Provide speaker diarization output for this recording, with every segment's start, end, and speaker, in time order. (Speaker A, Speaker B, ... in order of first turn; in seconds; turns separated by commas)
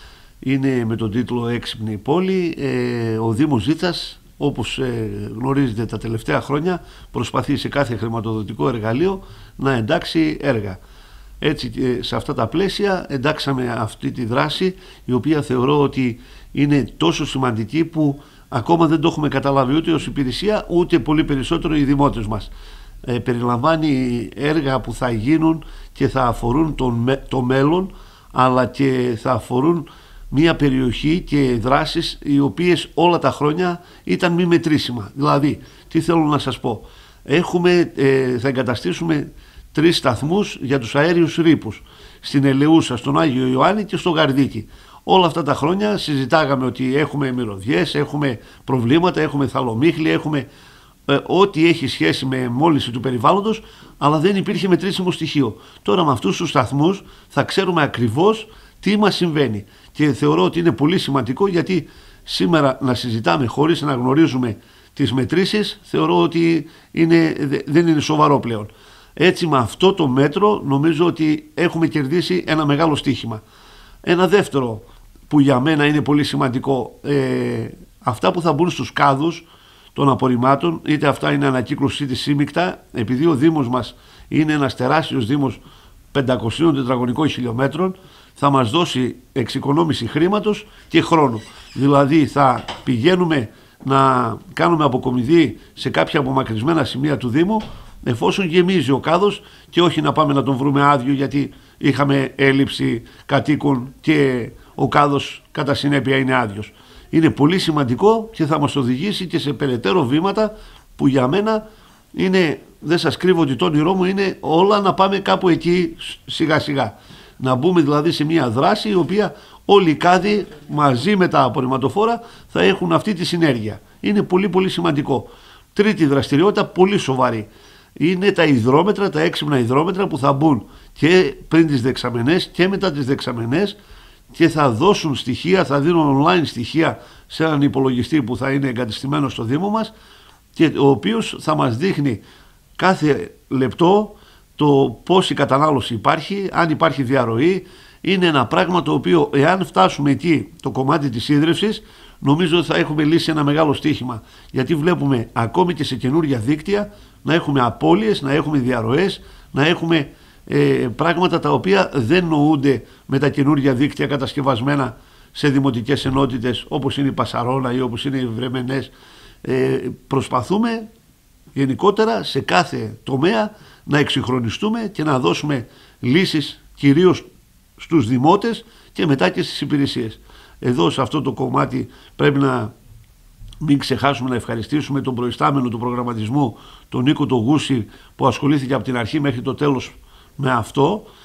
Speaker A: 0.4-10.8, Speaker A: 11.4-22.5, Speaker A: 23.0-50.5, Speaker A: 51.1-73.4, Speaker A: 74.0-85.6, Speaker A: 86.1-133.8, Speaker A: 134.3-139.9, Speaker A: 140.6-142.2, Speaker A: 142.8-168.9, Speaker A: 169.4-170.9, Speaker A: 171.5-177.2, Speaker A: 177.8-182.7, Speaker A: 183.6-191.1